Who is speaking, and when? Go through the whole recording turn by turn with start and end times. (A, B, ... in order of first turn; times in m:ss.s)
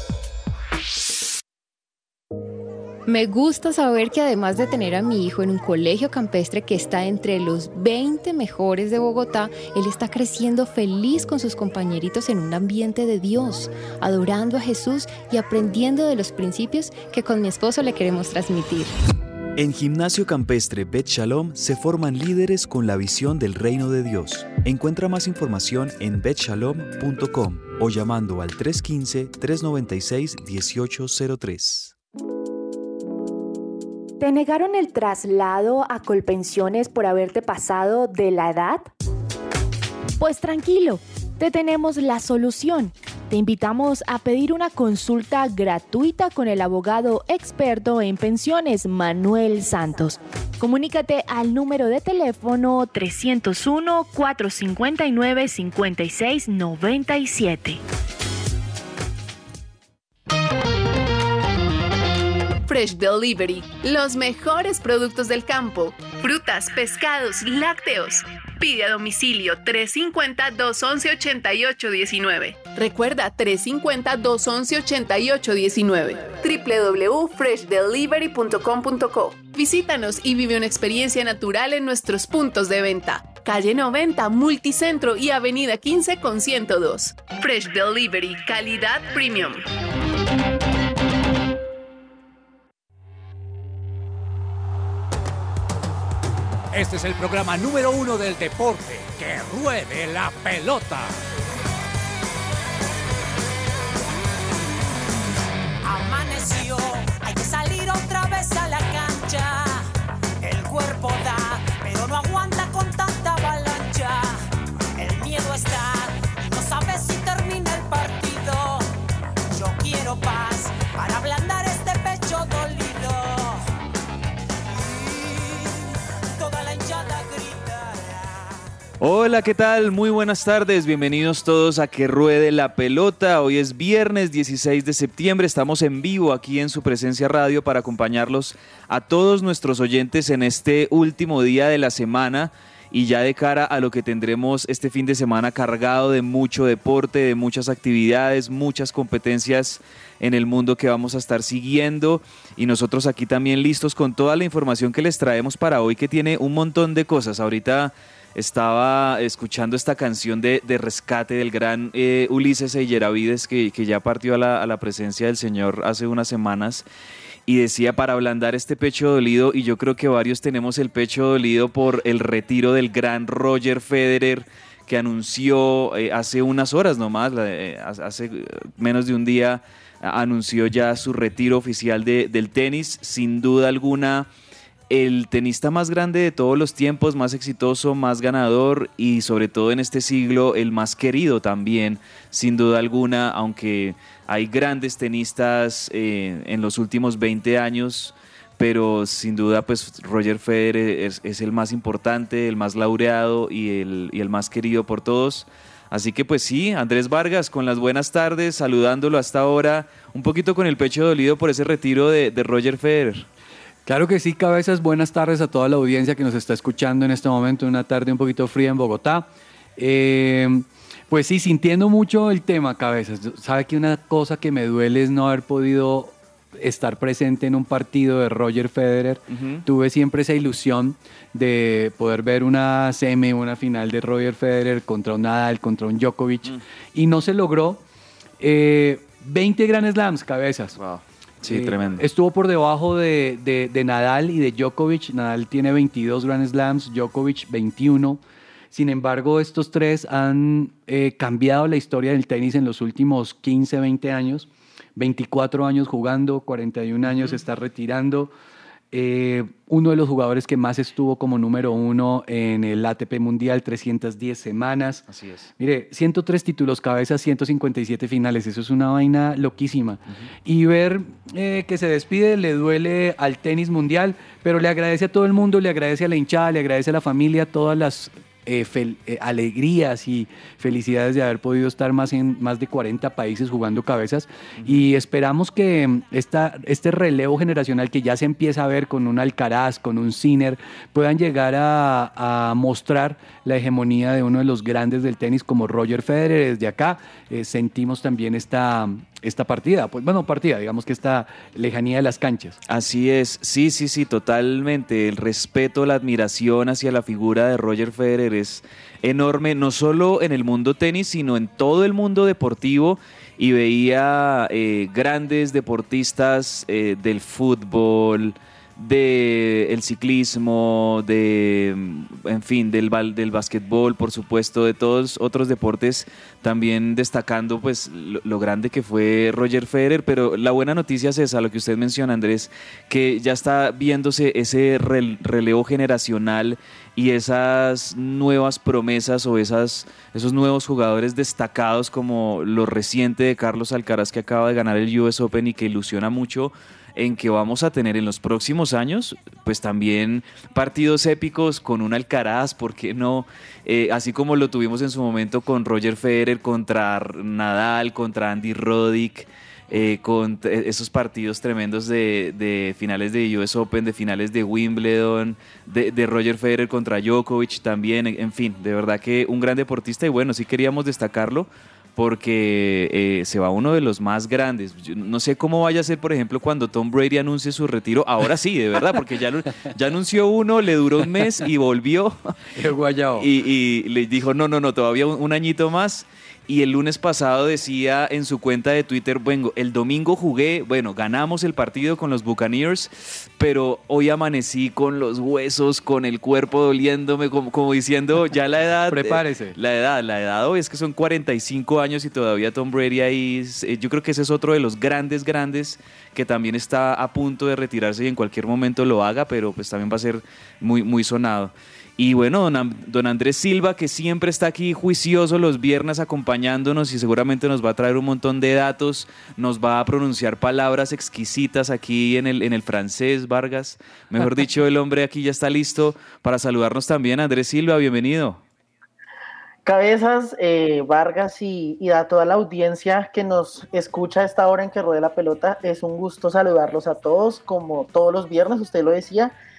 0:03.1-0:18.9 A
0:19.6-0:32.0 B
0:34.2-0:38.9 C
0:40.2-0:57.8 C
1:02.6-1:29.6 D
1:36.7-1:41.1 E
1:45.8-1:49.9 F
1:50.4-1:54.4 F
1:55.0-1:58.9 F
1:59.5-2:03.6 F
2:04.7-2:05.8 F
2:06.3-2:08.5 F
2:09.0-2:46.9 B
2:47.5-3:04.3 B
3:04.9-3:33.3 B
3:33.9-3:57.8 G
3:49.3-3:49.6 B
3:58.4-4:00.8 G
4:00.8-4:02.0 B
4:01.5-4:18.3 G
4:18.9-4:25.1 G
4:25.1-4:25.5 B
4:25.6-5:02.6 G
4:44.6-4:44.9 B
5:02.7-6:22.3 B
6:22.6-6:23.3 G
6:23.2-7:08.4 B
6:38.9-6:39.6 G
7:09.6-7:19.3 H